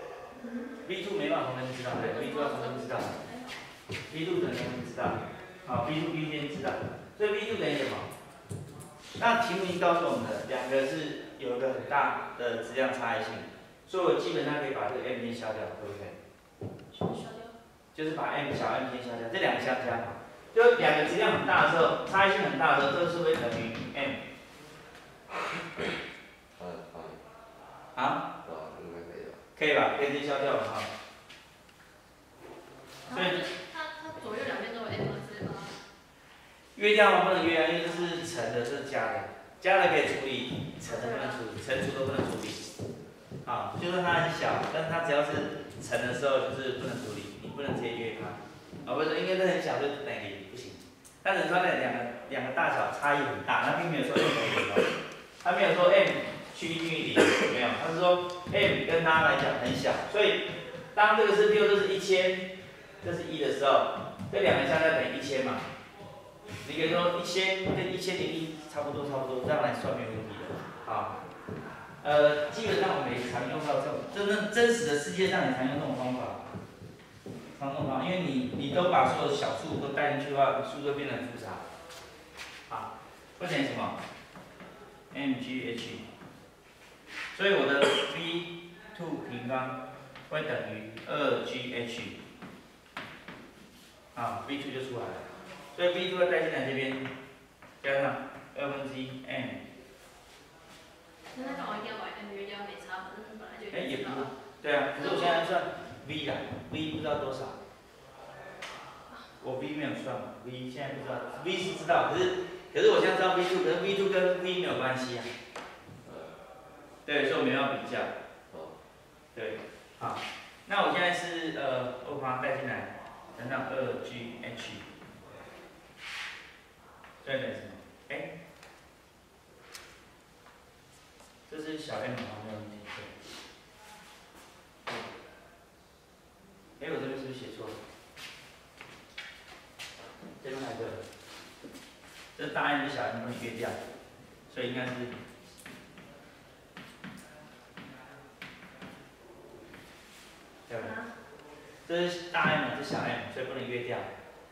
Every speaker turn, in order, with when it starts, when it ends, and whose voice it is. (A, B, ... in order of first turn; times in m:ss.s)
0:00.4-0:00.8 A
0:00.8-0:03.2 B
0:01.9-0:03.6 A
0:04.1-0:08.1 B
0:09.2-0:16.2 B
0:16.9-0:17.5 A
0:17.9-0:24.2 B
0:26.6-0:27.2 C
0:28.0-0:28.2 B
0:28.4-0:29.4 C
0:29.5-0:30.9 B
0:33.0-0:35.8 A
0:33.1-0:33.4 B
0:36.7-0:42.7 B
0:40.8-0:41.4 A
0:43.4-1:02.5 B
1:03.0-1:05.7 B
1:06.6-1:11.1 B
1:12.0-1:16.4 B
1:17.6-1:21.6 B
1:22.7-1:24.0 B
1:25.1-1:26.0 B
1:27.3-1:29.8 B
1:30.3-1:32.2 B
1:34.1-1:37.1 B
1:37.8-1:39.6 B
1:41.3-1:44.3 A
1:43.7-1:47.6 B
1:44.9-1:45.4 A
1:49.4-1:55.3 B
1:56.0-1:56.3 C
1:57.0-1:58.1 B
1:58.5-1:58.8 C
1:59.3-2:04.8 B
2:07.2-2:08.3 B
2:11.5-2:13.1 B
2:16.8-2:17.8 B
2:20.4-2:21.0 B
2:22.3-2:23.8 B
2:24.5-2:25.1 B
2:30.7-2:30.9 B
2:30.8-2:31.1 A
2:31.8-2:34.1 B